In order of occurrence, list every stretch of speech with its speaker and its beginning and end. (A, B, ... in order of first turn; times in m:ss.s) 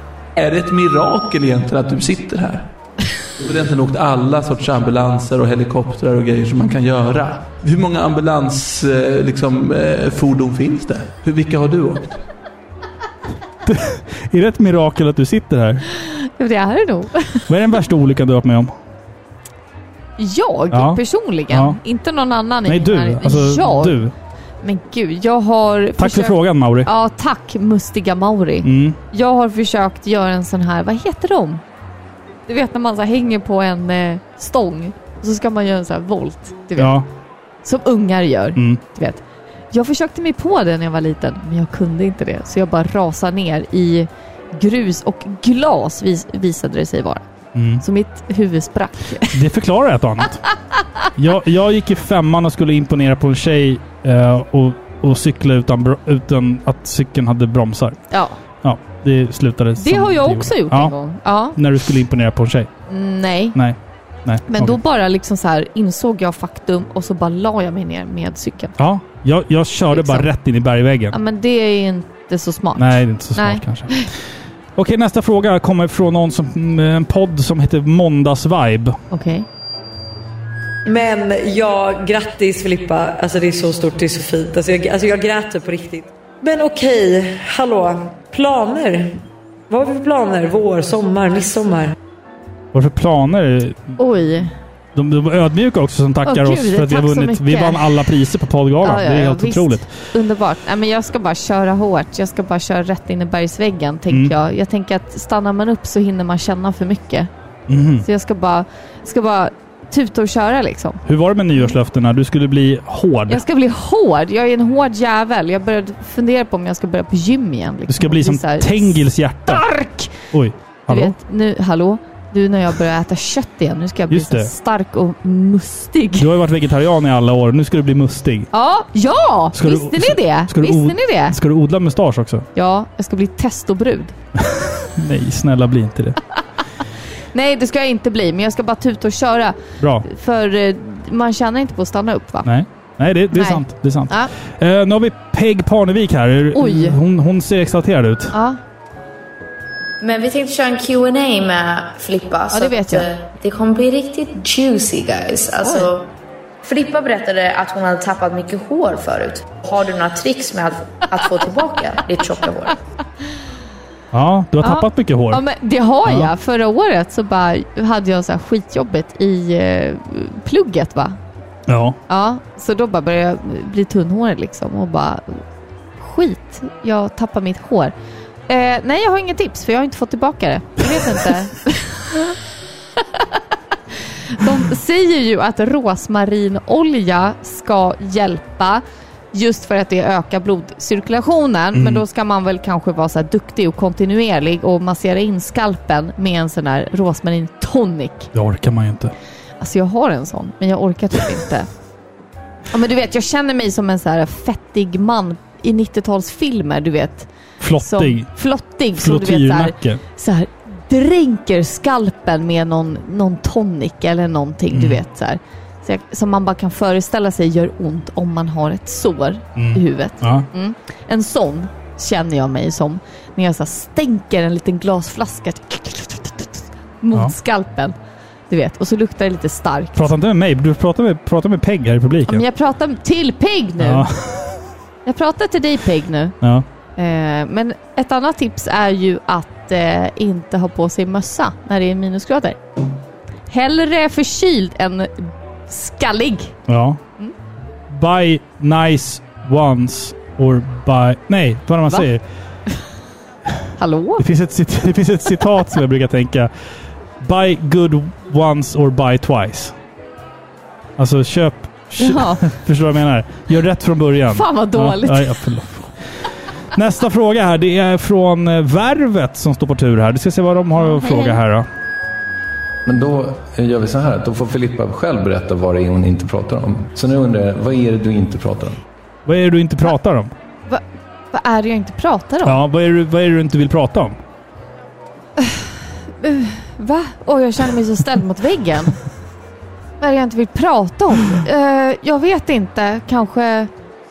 0:00.4-0:02.7 A
0:03.4-0:12.2 A
0:13.6-0:15.8 B
0:16.0-0:17.5 C
0:17.5-0:18.7 B
0:20.2-0:24.0 C
0:20.7-0:21.8 B
0:22.7-0:24.1 B
0:24.6-0:31.6 C
0:26.0-0:26.9 B
0:28.6-0:29.0 B
0:32.5-0:37.0 C
0:36.8-0:37.1 B
0:37.6-0:47.2 C
0:47.6-0:47.8 B
0:47.8-0:49.4 C
0:49.3-0:50.4 B
0:51.2-0:58.0 B
0:58.1-0:58.4 C
0:58.6-1:01.0 B
0:59.8-1:01.6 C
1:01.6-1:02.7 B
1:02.9-1:03.6 C
1:03.6-1:04.8 B
1:04.5-1:08.8 C
1:08.8-1:11.2 B
1:09.9-1:10.3 C
1:11.1-1:14.1 C
1:12.8-1:14.0 B
1:14.8-1:19.0 B
1:19.1-1:19.5 C
1:20.9-1:32.0 D
1:32.7-1:34.0 B
1:34.0-1:34.5 C
1:34.9-1:39.9 B
1:36.2-1:38.1 C
1:38.8-1:47.3 C
1:44.1-1:44.4 B
1:47.7-1:48.1 B
1:48.0-1:51.0 C
1:51.0-1:53.4 B
1:53.3-2:00.2 C
1:57.9-1:59.7 B
2:00.3-2:01.2 B
2:00.9-2:06.3 C
2:04.1-2:04.5 B
2:06.2-2:08.5 B
2:08.5-2:11.4 C
2:09.5-2:12.5 B
2:12.6-2:14.2 C
2:15.0-2:16.2 B
2:17.3-2:22.5 C
2:19.8-2:20.1 B
2:22.4-2:28.3 B
2:23.3-2:24.3 C
2:26.5-2:27.0 C
2:28.3-2:28.6 C
2:30.0-2:36.1 E
2:32.5-2:33.1 C
2:35.6-2:35.9 C
2:36.6-2:42.8 E
2:44.1-2:45.4 B
2:44.6-2:51.2 C
2:46.0-2:46.3 B
2:51.7-2:52.0 B
2:52.1-2:55.4 C
2:56.0-2:57.9 C
2:58.5-3:02.3 C
3:04.3-3:18.3 C
3:11.7-3:12.0 B
3:18.3-3:19.1 B
3:19.6-3:21.7 C
3:22.7-3:48.0 C
3:27.6-3:28.3 B
3:29.0-3:30.0 B
3:34.7-3:35.0 B
3:39.6-3:40.5 B
3:48.5-3:50.1 C
3:50.0-3:52.5 B
3:52.3-3:54.1 C
3:53.8-3:54.6 B
3:55.0-3:56.4 C
3:56.4-3:56.7 B
3:57.0-4:02.6 C
4:03.5-4:06.6 C
4:06.7-4:07.0 B
4:07.9-4:12.2 B
4:13.8-4:14.2 C
4:14.2-4:16.5 B
4:17.2-4:19.8 B
4:21.0-4:26.0 B
4:22.0-4:22.4 C
4:24.3-4:25.4 C
4:26.7-4:31.7 B
4:30.8-4:31.4 C
4:32.8-4:38.8 F
4:39.3-4:40.3 B
4:40.7-4:42.6 C
4:42.4-4:44.2 B
4:45.4-4:45.7 C
4:46.2-4:49.0 C
4:50.0-4:53.7 C